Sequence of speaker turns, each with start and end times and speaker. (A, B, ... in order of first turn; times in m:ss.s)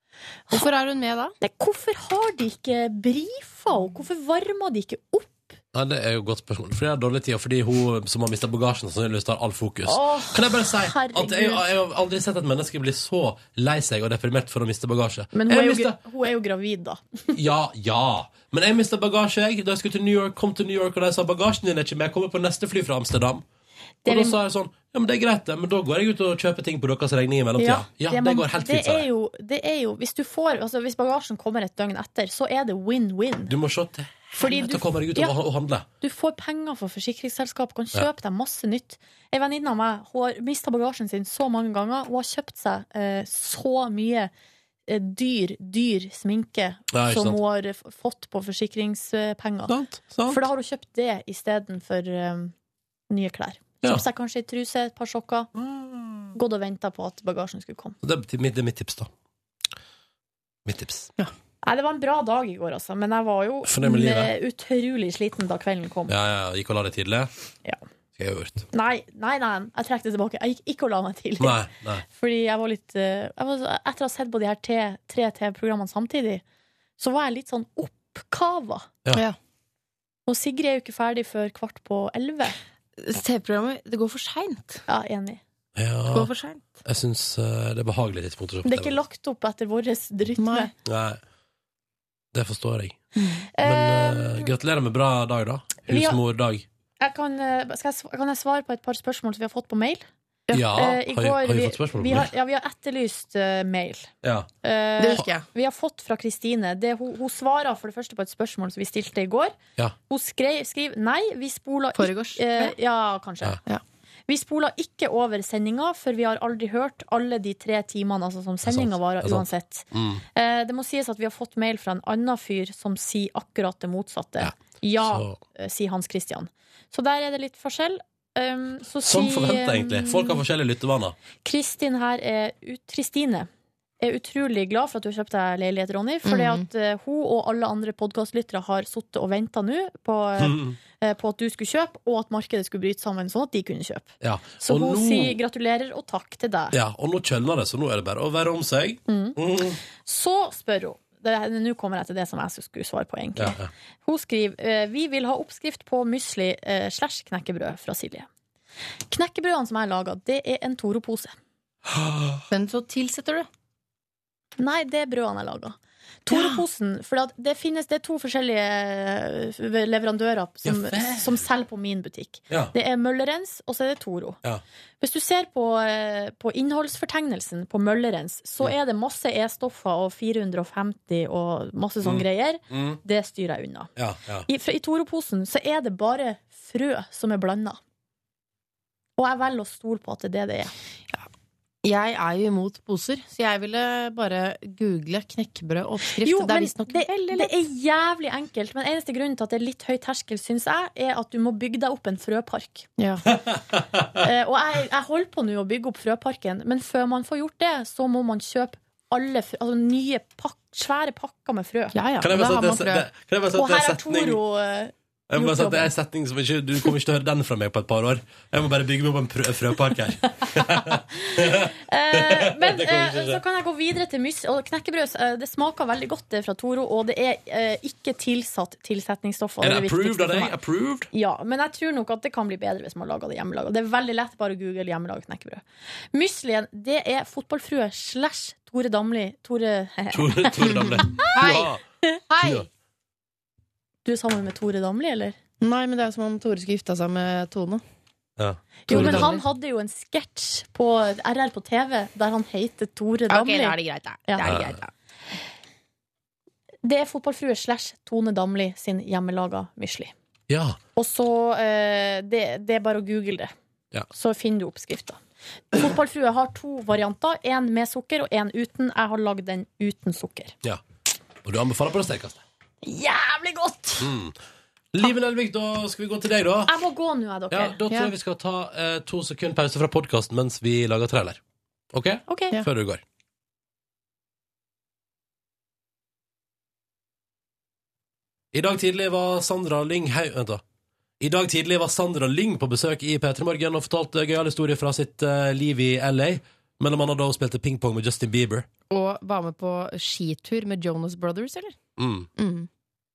0:00.5-0:01.3 A
0:01.4-0:05.6 B
0:05.7-0:16.0 C
0:09.9-0:11.7 B
0:15.3-0:17.2 B
0:17.3-0:23.4 C
0:24.0-0:24.4 B
0:24.0-0:29.0 C
0:27.6-0:33.5 B
0:33.5-0:35.8 C
0:34.4-0:35.3 B
0:36.0-0:44.3 B
0:44.9-0:49.7 B
0:46.9-0:47.4 C
0:49.7-0:50.4 C
0:50.3-0:52.5 B
0:53.1-0:55.5 B
0:55.6-0:56.3 C
0:56.3-0:58.0 B
0:58.0-0:59.1 C
1:00.6-1:01.1 C
1:01.6-1:06.1 B
1:03.6-1:04.3 C
1:06.1-1:07.3 C
1:08.2-1:08.6 C
1:08.7-1:16.4 B
1:11.4-1:12.0 C
1:17.0-1:18.9 B
1:20.3-1:22.6 B
1:23.0-1:24.8 A
1:24.9-1:25.4 B
1:25.8-1:26.3 C
1:26.1-1:26.7 A
1:26.8-1:29.0 C
1:28.6-1:30.7 B
1:30.4-1:30.7 A
1:30.8-1:31.2 C
1:32.3-1:33.0 C
1:33.2-1:33.5 A
1:33.6-1:34.5 B
1:33.6-1:36.6 C
1:35.9-1:36.2 B
1:37.0-1:44.1 B
1:40.5-1:42.3 C
1:44.2-1:44.5 C
1:44.6-1:49.6 B
1:45.0-1:45.4 A
1:50.1-1:53.6 B
1:52.0-1:52.7 A
1:54.3-2:10.4 B
1:58.6-2:00.2 C
2:04.4-2:05.4 C
2:09.0-2:11.2 C
2:11.4-2:13.5 B
2:14.0-2:26.7 B
2:16.2-2:16.6 A
2:20.4-2:20.8 C
2:24.2-2:25.4 C
2:26.7-2:29.8 C
2:29.1-2:29.4 B
2:30.0-2:38.3 B
2:33.4-2:33.7 C
2:39.1-2:41.3 B
2:41.9-2:42.4 C
2:42.5-2:43.5 A
2:44.6-2:54.4 B
2:46.3-2:46.6 A
2:50.6-2:51.4 C
2:55.0-3:03.9 B
3:02.0-3:03.0 C
3:04.0-3:04.5 C
3:04.5-3:07.8 B
3:09.2-3:10.7 B
3:11.8-3:17.5 A
3:16.2-3:22.9 B
3:23.0-3:23.3 A
3:23.4-3:24.1 C
3:24.2-3:31.9 B
3:31.9-3:33.0 A
3:32.2-3:34.4 C
3:33.6-3:35.9 B
3:35.3-3:43.4 C
3:40.4-3:50.5 B
3:49.6-3:51.1 C
3:51.1-4:01.3 B
4:00.1-4:01.8 C
4:00.6-4:01.7 A
4:02.3-4:02.7 A
4:04.0-4:05.4 B
4:05.6-4:07.8 A
4:08.4-4:09.3 C
4:08.9-4:13.8 B
4:08.9-4:09.4 A
4:13.3-4:14.9 A
4:14.4-4:14.8 C
4:16.8-4:20.1 B
4:20.5-4:20.8 C
4:21.0-4:23.5 B
4:24.1-4:25.2 B
4:25.7-4:30.6 B
4:31.4-4:32.4 C
4:32.8-4:34.1 B
4:34.0-4:34.4 C
4:34.9-4:36.7 C
4:36.6-4:37.8 B
4:37.5-4:41.4 C
4:41.9-4:43.0 C
4:42.3-4:42.6 B
4:48.5-4:50.6 C
4:51.2-4:58.7 C
4:58.9-5:01.8 A
5:02.0-5:02.3 C
5:02.4-5:02.7 A